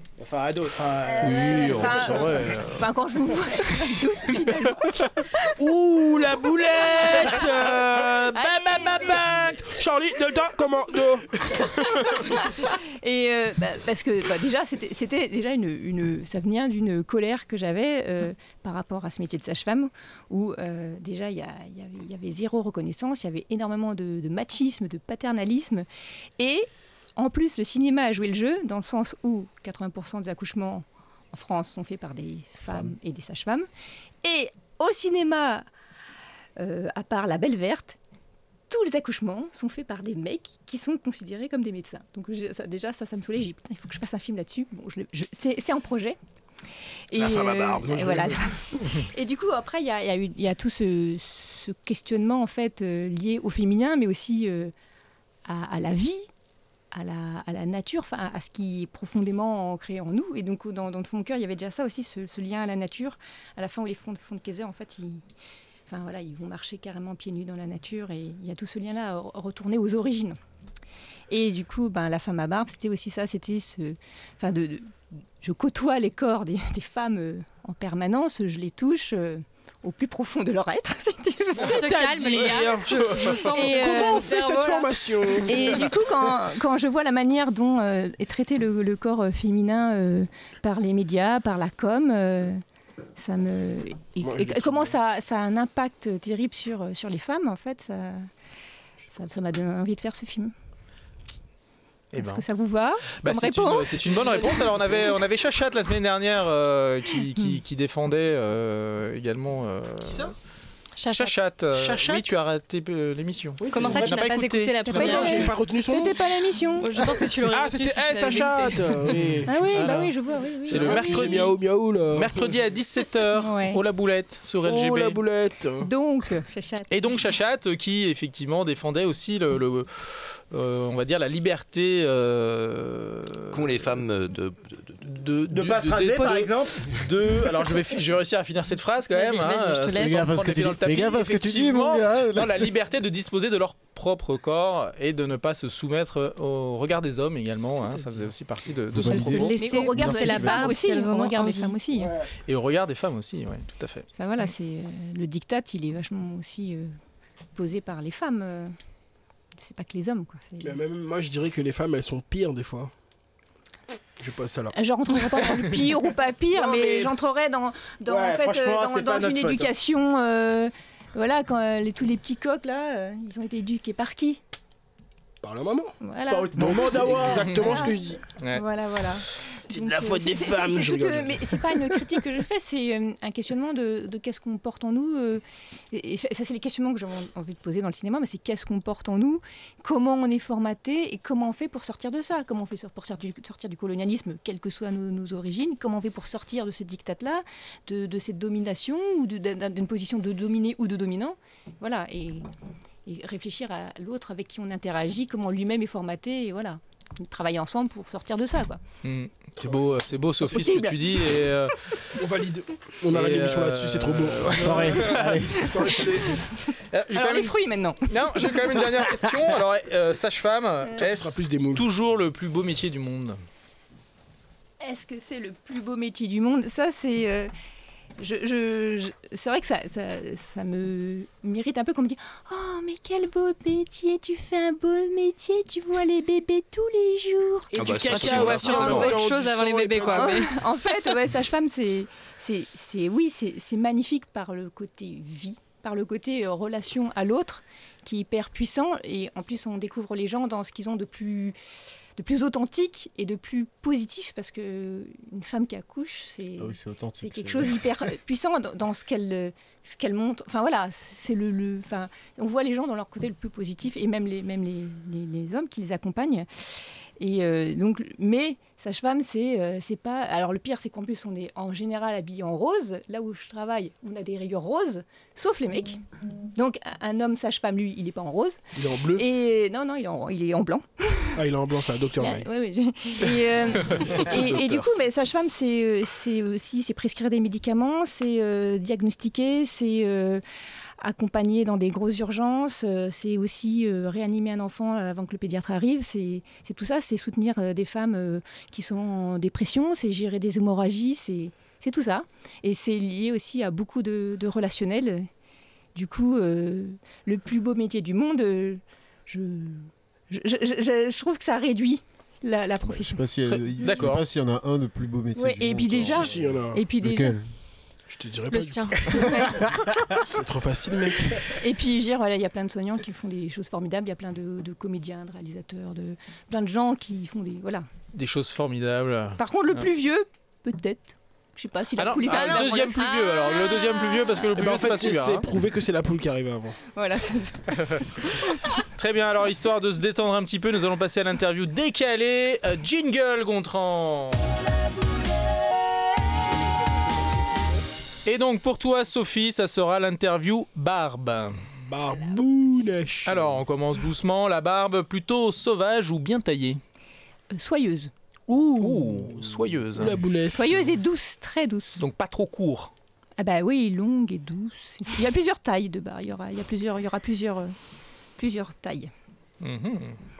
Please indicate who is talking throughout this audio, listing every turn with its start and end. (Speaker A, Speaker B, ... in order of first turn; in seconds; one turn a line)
Speaker A: 0.2-1.9
Speaker B: 1.1-5.5
Speaker C: 1.2-2.9
Speaker D: 1.9-2.4
Speaker D: 5.6-12.2
Speaker B: 6.8-7.5
Speaker B: 8.3-9.3
Speaker C: 8.7-9.6
Speaker B: 11.7-25.9
Speaker B: 26.4-33.7
Speaker B: 34.2-35.7
Speaker B: 36.6-38.0
Speaker B: 38.7-46.2
Speaker B: 47.1-54.7
Speaker D: 47.1-48.5
Speaker B: 55.5-56.3
Speaker B: 56.9-65.2
Speaker B: 65.9-70.4
Speaker B: 71.3-82.7
Speaker E: 81.5-85.3
Speaker D: 81.6-86.0
Speaker B: 83.5-84.3
Speaker B: 85.5-92.6
Speaker B: 93.2-98.3
Speaker D: 94.2-95.0
Speaker B: 99.1-100.5
Speaker C: 102.1-102.4
Speaker B: 102.1-104.7
Speaker C: 103.2-110.3
Speaker E: 111.0-111.8
Speaker C: 111.1-115.5
Speaker F: 111.9-112.2
Speaker D: 111.9-112.2
Speaker D: 113.6-114.2
Speaker E: 113.7-115.6
Speaker B: 114.8-117.0
Speaker D: 114.9-116.2
Speaker E: 116.8-119.1
Speaker D: 117.4-120.1
Speaker C: 119.1-125.2
Speaker B: 119.5-121.5
Speaker D: 120.7-122.5
Speaker B: 123.4-123.8
Speaker D: 124.6-125.9
Speaker B: 125.8-127.2
Speaker C: 126.9-133.8
Speaker F: 133.5-135.1
Speaker C: 135.0-149.6
Speaker A: 135.5-136.9
Speaker E: 136.0-136.5
Speaker E: 139.1-140.3
Speaker G: 139.9-142.7
Speaker D: 147.7-148.3
Speaker G: 148.9-150.7
Speaker E: 149.1-151.8
Speaker B: 149.6-152.1
Speaker C: 152.5-154.1
Speaker B: 154.2-156.9
Speaker B: 157.6-158.8
Speaker B: 159.6-160.8
Speaker D: 160.6-162.9
Speaker D: 164.2-164.7
Speaker B: 164.7-174.4
Speaker D: 166.5-167.1
Speaker A: 168.1-169.7
Speaker D: 175.4-175.9
Speaker B: 176.0-178.0
Speaker A: 176.3-177.7
Speaker D: 176.5-178.2
Speaker B: 178.5-202.5
Speaker D: 179.7-182.1
Speaker B: 203.1-208.8
Speaker C: 209.0-212.1
Speaker B: 210.5-211.1
Speaker D: 212.2-216.4
Speaker C: 213.1-215.4
Speaker G: 214.6-215.6
Speaker B: 215.9-216.4
Speaker C: 216.9-223.4
Speaker B: 217.1-218.7
Speaker D: 221.0-221.9
Speaker B: 224.8-227.5
Speaker B: 228.2-239.3
Speaker F: 237.7-239.2
Speaker D: 237.7-240.5
Speaker E: 238.1-240.6
Speaker B: 240.0-251.6
Speaker B: 252.2-266.5
Speaker G: 256.6-257.8
Speaker B: 267.2-276.0
Speaker B: 276.5-278.6
Speaker D: 278.8-279.2
Speaker B: 279.1-281.4
Speaker D: 281.4-282.5
Speaker B: 282.2-290.4
Speaker D: 283.8-284.8
Speaker B: 291.0-305.3
Speaker B: 305.9-314.0
Speaker G: 312.9-317.5
Speaker C: 313.8-314.2
Speaker B: 315.4-317.4
Speaker D: 315.9-316.8
Speaker D: 318.1-321.6
Speaker E: 318.5-319.3
Speaker B: 319.1-319.6
Speaker B: 321.6-327.9
Speaker C: 328.1-329.4
Speaker B: 329.4-333.1
Speaker C: 332.0-335.5
Speaker E: 332.3-334.4
Speaker D: 334.6-336.8
Speaker B: 337.0-337.8
Speaker C: 337.8-338.0
Speaker C: 338.9-344.4
Speaker C: 348.2-351.6
Speaker D: 351.9-353.6
Speaker C: 353.2-356.8
Speaker B: 357.5-358.1
Speaker D: 358.5-360.8
Speaker C: 358.6-360.2
Speaker B: 360.5-362.0
Speaker C: 362.0-362.9
Speaker B: 363.4-367.8
Speaker B: 368.4-369.1
Speaker C: 369.6-370.2